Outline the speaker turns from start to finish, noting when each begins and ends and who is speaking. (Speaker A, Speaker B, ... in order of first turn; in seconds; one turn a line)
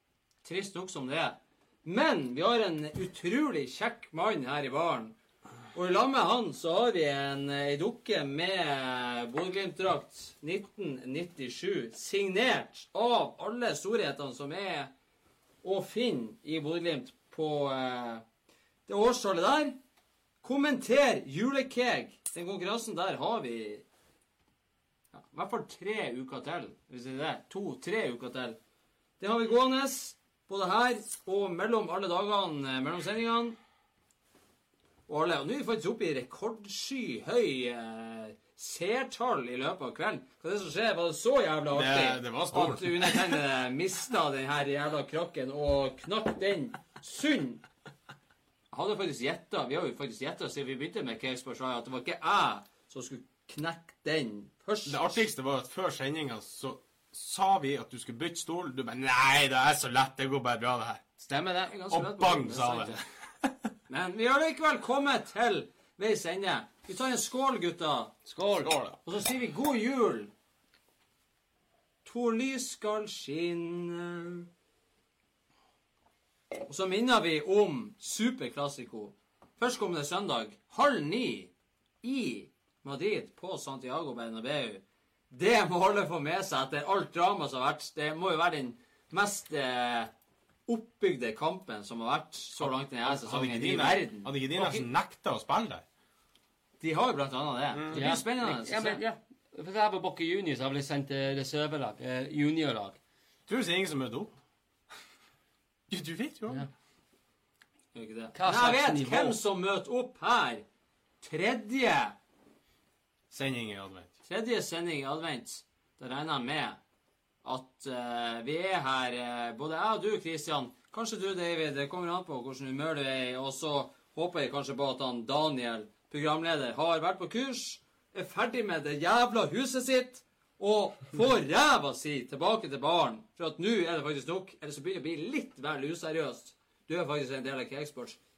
Speaker A: 0.4-5.1
Speaker A: 5.7-14.9
Speaker A: 15.6-18.2
Speaker A: 18.9-19.8
Speaker A: 20.4-23.9
Speaker A: 25.1-28.6
Speaker A: 29.2-33.6
Speaker A: 35.1-47.6
Speaker B: 41.7-43.4
Speaker A: 48.7-55.1
Speaker B: 54.9-61.1
Speaker C: 61.2-61.8
Speaker A: 61.7-63.0
Speaker B: 61.9-63.7
Speaker A: 63.9-68.2
Speaker C: 68.3-68.7
Speaker B: 68.6-69.0
Speaker A: 69.0-70.3
Speaker A: 72.0-74.5
Speaker A: 76.7-81.5
Speaker A: 82.0-90.1
Speaker A: 90.7-94.9
Speaker B: 92.6-95.8
Speaker A: 96.8-99.0
Speaker B: 97.7-98.2
Speaker C: 97.9-103.0
Speaker B: 103.5-104.3
Speaker B: 105.9-106.7
Speaker A: 107.9-110.6
Speaker C: 108.3-109.4
Speaker A: 111.2-112.2
Speaker B: 113.3-114.1
Speaker A: 114.2-116.8
Speaker A: 117.4-138.2